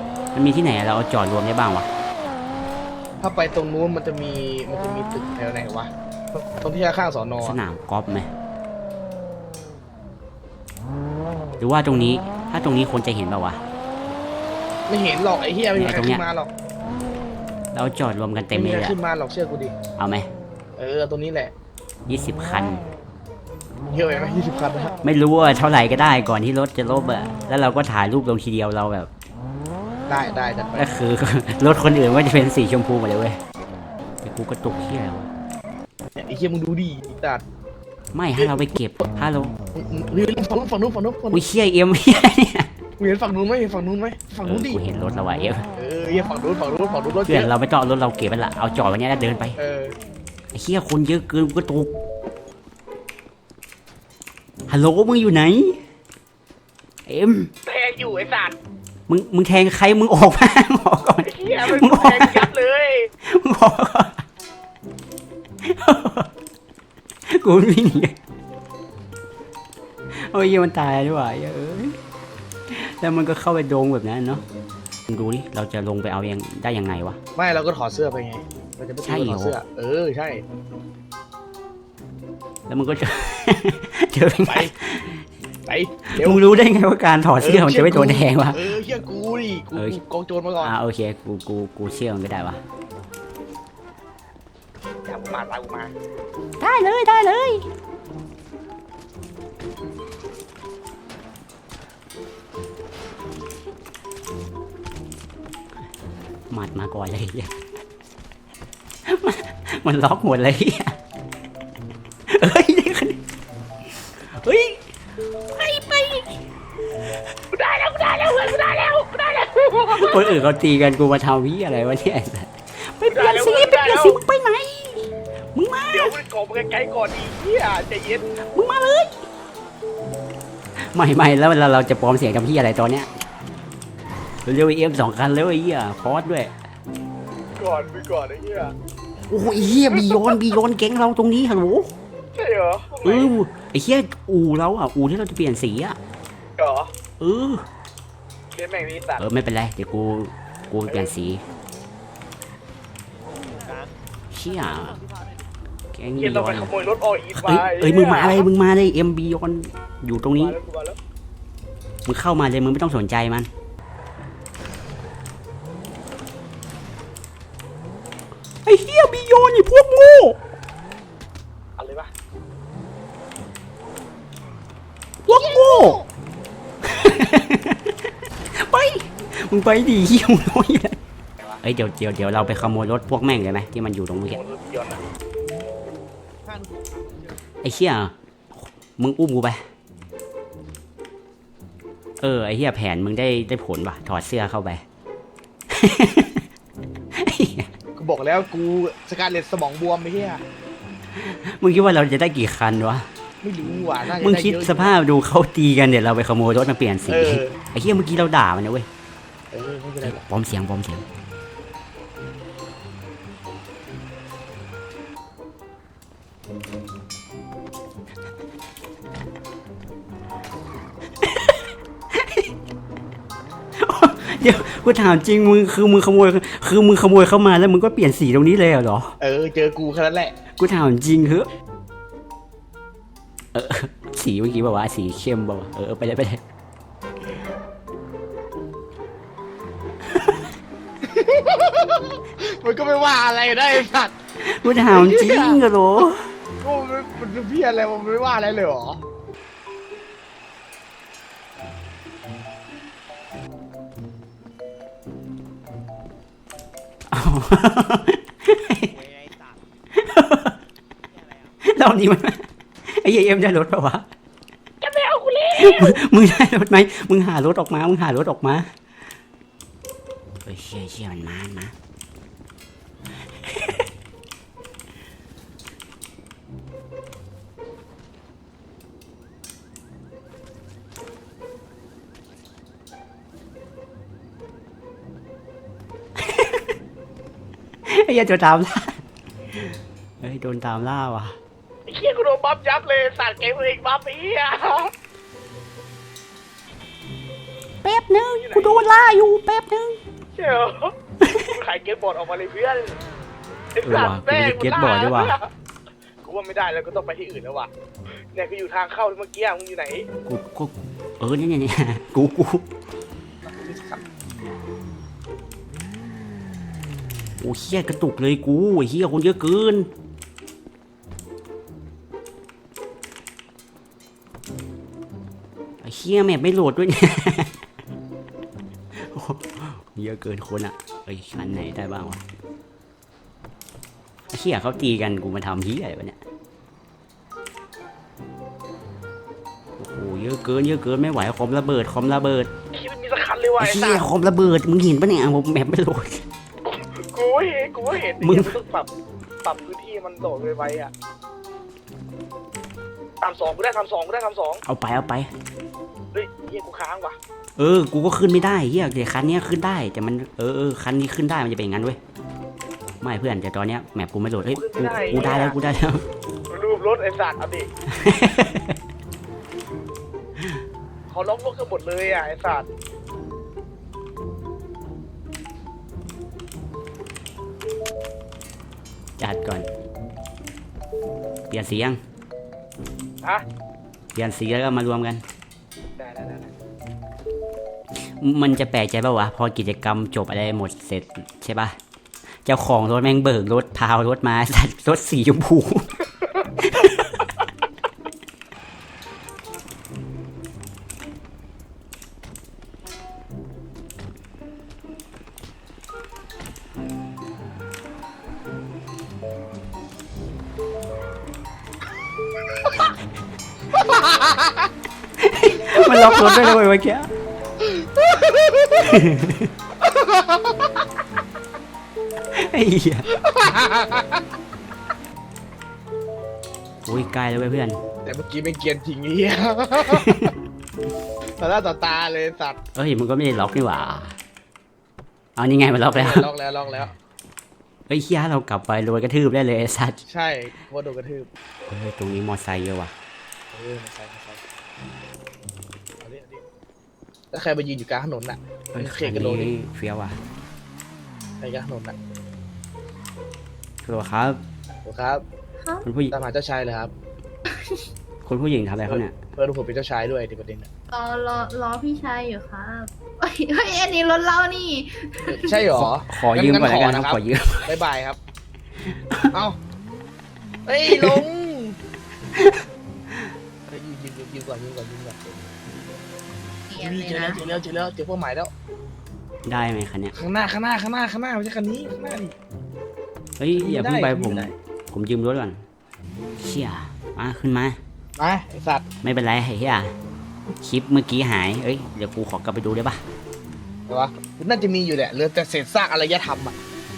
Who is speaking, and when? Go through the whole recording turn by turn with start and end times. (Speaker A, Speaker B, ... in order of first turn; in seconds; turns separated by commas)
Speaker A: 0.3-1.9, Speaker B: 3.2-5.9, Speaker B: 6.6-7.6, Speaker A: 7.4-8.3, Speaker A: 11.6-13.6, Speaker B: 14.9-16.5, Speaker A: 15.7-16.2, Speaker A: 17.7-19.0, Speaker B: 18.5-19.7, Speaker A: 20.0-20.3, Speaker B: 20.8-21.5, Speaker A: 22.1-22.8, Speaker B: 23.9-24.9, Speaker A: 25.0-29.1, Speaker B: 30.1-30.9, Speaker A: 30.8-33.4, Speaker A: 34.2-35.3, Speaker B: 36.2-37.4, Speaker A: 38.1-39.5, Speaker B: 39.7-41.4, Speaker A: 41.3-42.7, Speaker B: 43.0-44.8, Speaker A: 44.4-45.7, Speaker B: 45.7-47.5, Speaker A: 47.2-49.6, Speaker B: 49.6-49.9, Speaker A: 50.5-51.9, Speaker A: 54.7-55.8, Speaker A: 57.0-57.5, Speaker B: 57.6-58.5, Speaker A: 59.1-62.5, Speaker B: 61.2-63.1, Speaker A: 63.2-64.2, Speaker A: 65.6-66.3, Speaker A: 67.3-68.2, Speaker A: 70.1-72.0, Speaker A: 72.7-74.4, Speaker A: 75.1-77.2, Speaker B: 77.3-80.4, Speaker A: 79.0-79.6, Speaker A: 82.7-85.2, Speaker B: 84.5-84.7, Speaker B: 85.7-86.5, Speaker A: 86.1-88.7, Speaker B: 87.4-90.7, Speaker A: 89.8-90.0, Speaker A: 90.6-92.6, Speaker B: 95.0-95.9, Speaker A: 96.6-97.6, Speaker A: 106.5-107.5, Speaker A: 109.0-111.0, Speaker A: 112.3-113.2, Speaker A: 114.3-114.8, Speaker A: 115.5-116.4, Speaker B: 117.5-120.5, Speaker A: 119.9-126.2, Speaker B: 123.0-124.2, Speaker B: 125.9-128.3, Speaker A: 128.4-129.2, Speaker A: 130.8-133.1, Speaker A: 134.4-136.6, Speaker B: 137.6-138.7, Speaker A: 139.3-141.9, Speaker B: 139.9-140.3, Speaker B: 142.3-143.3, Speaker A: 143.0-146.0, Speaker B: 146.6-146.9, Speaker A: 147.2-147.7, Speaker B: 148.5-149.2, Speaker A: 149.2-151.4, Speaker B: 150.9-151.1, Speaker A: 154.3-155.0, Speaker A: 155.9-156.7, Speaker B: 156.2-158.5, Speaker A: 157.3-160.6, Speaker B: 160.3-161.0, Speaker A: 162.1-163.5, Speaker A: 168.6-170.4, Speaker B: 171.8-172.1, Speaker A: 175.2-176.0, Speaker C: 175.3-176.0, Speaker A: 176.8-177.9, Speaker A: 178.5-181.0, Speaker A: 181.6-184.4, Speaker B: 184.2-185.0, Speaker B: 186.4-187.5, Speaker A: 187.6-188.1, Speaker A: 189.0-189.6, Speaker A: 192.2-194.8, Speaker A: 195.7-196.4, Speaker A: 197.2-197.7, Speaker B: 197.9-200.4, Speaker A: 201.1-203.1, Speaker B: 203.4-204.9, Speaker A: 204.2-208.9, Speaker B: 207.1-207.6, Speaker B: 209.5-210.2, Speaker A: 210.0-211.1, Speaker A: 221.2-222.5, Speaker A: 223.8-229.1, Speaker B: 229.2-230.3, Speaker A: 230.6-231.5, Speaker A: 233.5-236.4, Speaker B: 241.0-244.1, Speaker A: 244.4-246.3, Speaker B: 244.8-245.6, Speaker B: 246.6-249.0, Speaker A: 257.1-259.0, Speaker A: 259.9-260.6, Speaker A: 261.6-264.1, Speaker B: 264.8-266.0, Speaker A: 265.6-268.7, Speaker A: 270.4-271.7, Speaker A: 273.4-273.8, Speaker A: 286.2-286.6, Speaker A: 287.9-289.0, Speaker A: 290.2-291.4, Speaker B: 291.9-294.9, Speaker A: 297.8-300.0, Speaker B: 298.3-298.9, Speaker B: 300.3-300.9, Speaker A: 301.2-301.5, Speaker B: 301.4-303.0, Speaker B: 303.7-305.5, Speaker A: 303.8-305.4, Speaker B: 306.2-307.7, Speaker B: 308.3-310.1, Speaker A: 310.2-312.6, Speaker B: 313.4-314.0, Speaker A: 317.4-319.9, Speaker A: 325.8-327.5, Speaker A: 328.9-332.2, Speaker A: 334.3-336.2, Speaker A: 339.8-342.5, Speaker B: 342.7-344.1, Speaker A: 343.6-346.2, Speaker B: 346.7-348.9, Speaker A: 348.2-348.6, Speaker B: 349.4-350.9, Speaker B: 353.2-354.6, Speaker A: 354.6-355.3, Speaker B: 356.1-357.2, Speaker A: 357.6-362.0, Speaker A: 363.0-366.0, Speaker B: 364.5-365.6, Speaker B: 366.5-367.7, Speaker A: 367.9-368.8, Speaker B: 371.1-372.7, Speaker A: 379.2-379.7, Speaker A: 381.5-382.0, Speaker A: 384.1-385.2, Speaker B: 386.0-386.5, Speaker A: 388.0-391.8, Speaker A: 392.4-395.9, Speaker A: 396.6-397.1, Speaker B: 413.8-414.5, Speaker A: 415.2-417.1, Speaker B: 415.7-416.6, Speaker B: 417.6-419.0, Speaker A: 418.8-419.5, Speaker B: 419.9-420.6, Speaker A: 422.3-423.1, Speaker B: 423.1-424.2, Speaker A: 426.8-427.8, Speaker B: 428.0-430.3, Speaker A: 429.8-430.3, Speaker B: 431.2-432.6, Speaker A: 432.8-434.2, Speaker A: 435.4-436.3, Speaker B: 435.9-436.9, Speaker A: 437.9-440.0, Speaker B: 440.1-441.3, Speaker A: 441.7-442.9, Speaker B: 443.5-444.4, Speaker B: 446.0-446.4, Speaker B: 447.3-449.5, Speaker A: 448.7-450.2, Speaker B: 451.4-451.9, Speaker A: 453.8-454.4, Speaker B: 454.8-455.2, Speaker A: 455.8-456.1, Speaker B: 456.1-456.9, Speaker C: 457.5-457.8, Speaker A: 458.2-459.1, Speaker B: 458.9-460.7, Speaker C: 460.9-465.7, Speaker B: 465.2-468.2, Speaker A: 465.7-467.8, Speaker A: 468.9-469.3, Speaker B: 469.3-469.6, Speaker B: 470.6-471.8, Speaker B: 473.7-475.2, Speaker C: 476.7-477.4, Speaker B: 476.7-478.5, Speaker A: 479.4-480.1, Speaker B: 480.1-482.3, Speaker A: 483.4-485.6, Speaker B: 483.6-484.5, Speaker A: 486.4-487.8, Speaker B: 488.2-488.9, Speaker A: 489.0-489.9, Speaker A: 490.6-493.0, Speaker B: 493.9-496.6